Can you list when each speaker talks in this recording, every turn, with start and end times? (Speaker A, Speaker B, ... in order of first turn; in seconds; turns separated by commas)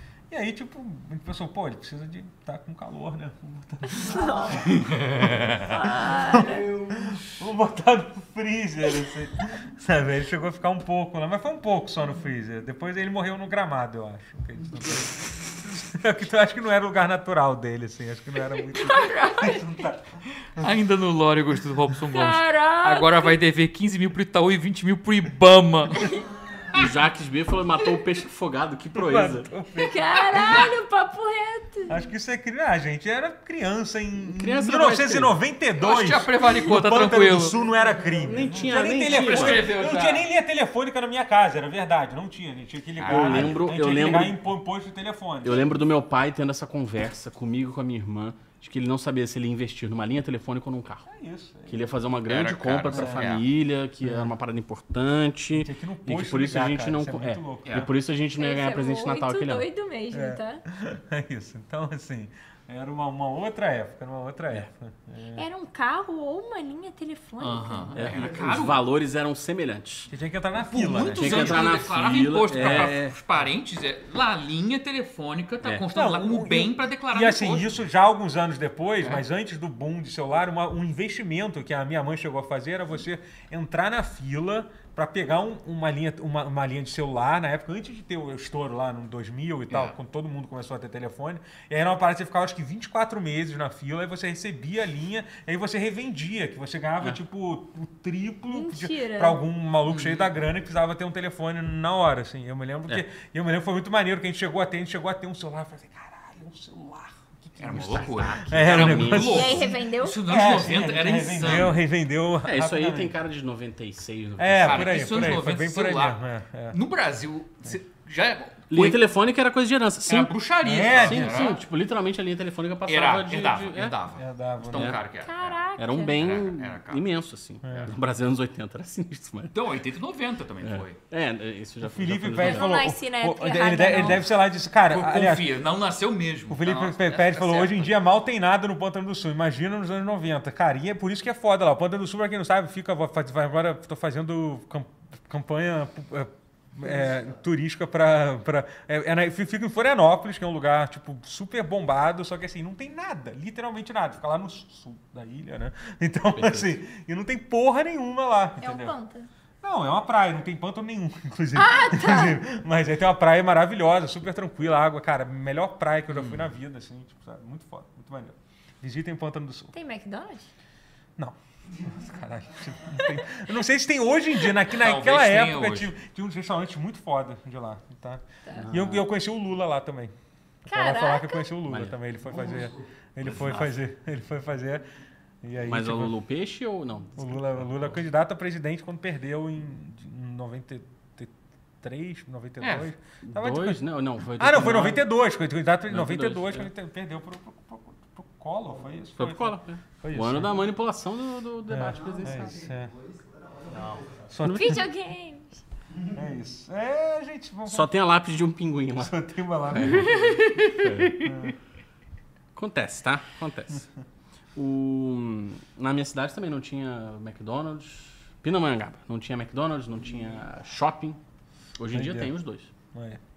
Speaker A: 0.3-20.8, Speaker B: 3.9-7.3, Speaker C: 4.8-5.5, Speaker D: 5.7-6.6, Speaker D: 18.6-19.6, Speaker C: 20.6-26.1, Speaker D: 22.1-23.3, Speaker E: 26.7-29.5, Speaker A: 28.9-30.7, Speaker D: 29.8-32.0, Speaker A: 31.9-45.7, Speaker E: 34.2-35.3, Speaker C: 35.8-37.5, Speaker B: 37.5-39.0, Speaker E: 38.2-39.7, Speaker C: 39.0-40.2, Speaker C: 43.0-43.6, Speaker E: 43.1-44.4, Speaker E: 45.4-51.1, Speaker A: 51.1-52.0, Speaker E: 51.7-59.7, Speaker C: 52.2-53.5, Speaker A: 52.9-53.3, Speaker A: 54.0-54.3, Speaker A: 55.5-57.9, Speaker D: 58.4-60.6, Speaker A: 60.1-65.5, Speaker D: 65.3-68.0, Speaker C: 67.4-68.8, Speaker E: 67.9-70.1, Speaker A: 68.0-68.3, Speaker A: 70.1-71.8, Speaker C: 70.7-77.8, Speaker E: 71.1-73.1, Speaker A: 72.5-73.0, Speaker A: 75.9-113.1, Speaker C: 89.7-89.9, Speaker D: 98.5-99.4, Speaker C: 99.8-100.3, Speaker C: 107.6-111.8, Speaker E: 107.7-109.7, Speaker D: 109.2-110.2, Speaker E: 112.4-115.3, Speaker A: 114.4-116.8, Speaker C: 114.6-116.2, Speaker C: 116.7-119.0, Speaker E: 118.7-120.3, Speaker C: 120.0-121.6, Speaker A: 120.6-121.6, Speaker E: 120.9-123.9, Speaker C: 122.8-127.0, Speaker A: 124.1-125.0, Speaker E: 124.7-125.0, Speaker D: 125.2-126.3, Speaker E: 125.8-129.6, Speaker A: 127.6-127.9, Speaker C: 129.5-131.0, Speaker E: 130.6-132.7, Speaker A: 131.8-135.5, Speaker D: 132.4-134.2, Speaker C: 134.9-137.9, Speaker A: 136.5-158.9, Speaker E: 156.3-156.7, Speaker D: 158.6-159.3, Speaker A: 159.6-169.7, Speaker D: 161.6-162.4, Speaker C: 166.1-166.5, Speaker D: 169.7-170.5, Speaker A: 171.2-180.1, Speaker C: 174.7-175.9, Speaker E: 178.6-179.1, Speaker A: 180.6-184.8, Speaker D: 180.7-181.5, Speaker E: 181.7-181.9, Speaker B: 182.2-182.8, Speaker C: 183.2-183.8, Speaker A: 185.4-186.2, Speaker E: 185.7-187.9, Speaker A: 187.2-193.8, Speaker C: 192.6-192.9, Speaker E: 193.3-195.0, Speaker A: 194.4-200.7, Speaker E: 195.9-196.7, Speaker E: 199.2-202.6, Speaker A: 201.7-202.9, Speaker B: 201.8-204.3, Speaker A: 204.3-204.8, Speaker E: 204.4-204.8, Speaker D: 204.4-205.6, Speaker A: 206.1-207.9, Speaker E: 207.7-209.1, Speaker A: 208.9-210.4, Speaker E: 209.7-211.3, Speaker C: 210.2-211.1, Speaker A: 211.2-211.6, Speaker E: 212.6-213.8, Speaker E: 214.6-221.2, Speaker E: 221.8-222.7, Speaker A: 221.9-222.3, Speaker A: 222.9-223.2